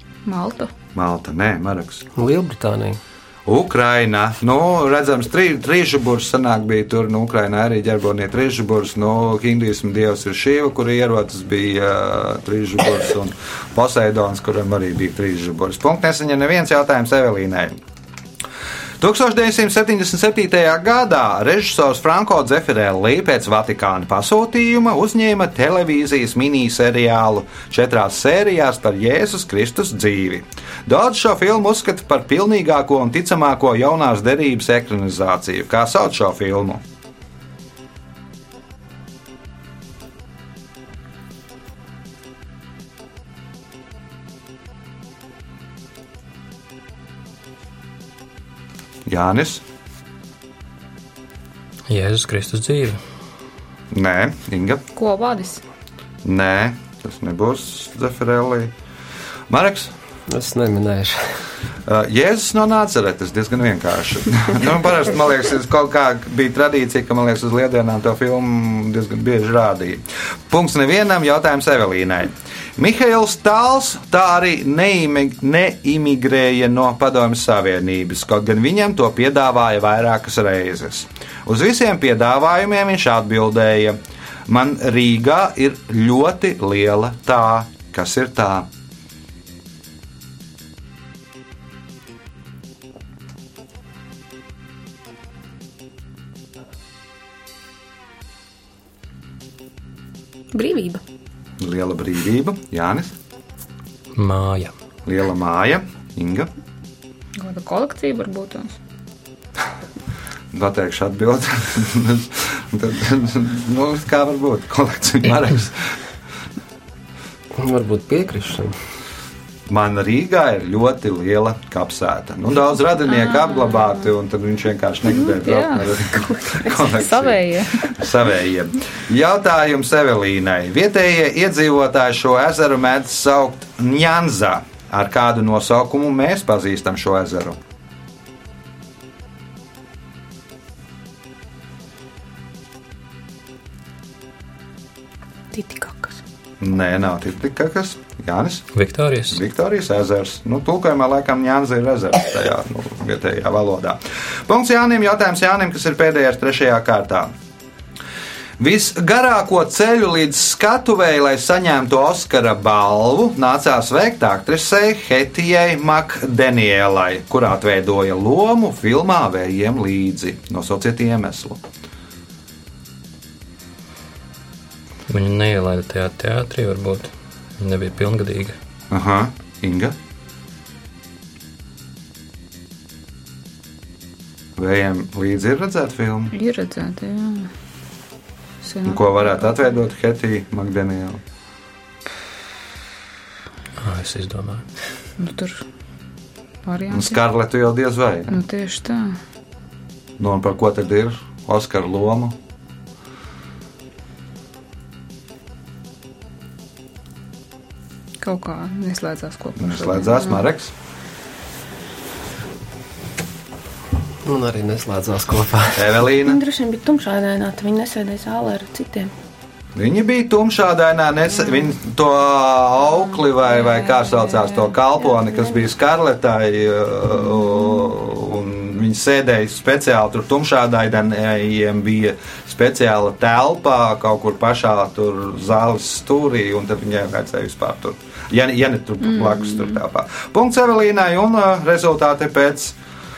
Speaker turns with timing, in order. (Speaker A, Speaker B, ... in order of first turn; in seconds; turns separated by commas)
Speaker A: 0.2-0.7, Speaker B: 0.9-2.0, Speaker C: 2.1-3.0, Speaker B: 3.5-17.8, Speaker B: 19.0-36.8, Speaker B: 49.0-49.6, Speaker D: 51.9-53.0, Speaker B: 53.9-54.8, Speaker A: 54.9-55.6, Speaker B: 56.2-58.7, Speaker B: 59.5-59.9, Speaker C: 60.3-61.4, Speaker B: 61.8-88.7, Speaker E: 100.5-101.0, Speaker B: 101.6-103.1, Speaker D: 104.1-104.7, Speaker B: 105.0-106.5, Speaker A: 107.4-108.8, Speaker B: 110.5-116.0, Speaker C: 117.6-118.7, Speaker B: 119.7-137.6, Speaker A: 125.2-125.9, Speaker A: 126.8-128.0, Speaker E: 145.5-146.2, Speaker B: 146.6-148.7, Speaker D: 148.7-149.4, Speaker B: 149.3-157.3, Speaker B: 158.6-171.6, Speaker D: 175.1-178.6, Speaker B: 178.9-179.9, Speaker B: 184.6-186.3, Speaker A: 186.3-187.5, Speaker A: 188.6-189.5, Speaker B: 188.8-191.2, Speaker D: 193.8-194.7, Speaker A: 195.2-195.6, Speaker A: 196.6-197.2, Speaker B: 196.9-198.4, Speaker A: 198.3-199.2, Speaker B: 200.2-202.3, Speaker A: 208.2-210.5, Speaker B: 209.6-210.7, Speaker C: 214.2-216.0, Speaker B: 215.7-216.4, Speaker E: 216.2-219.1, Speaker B: 219.8-242.8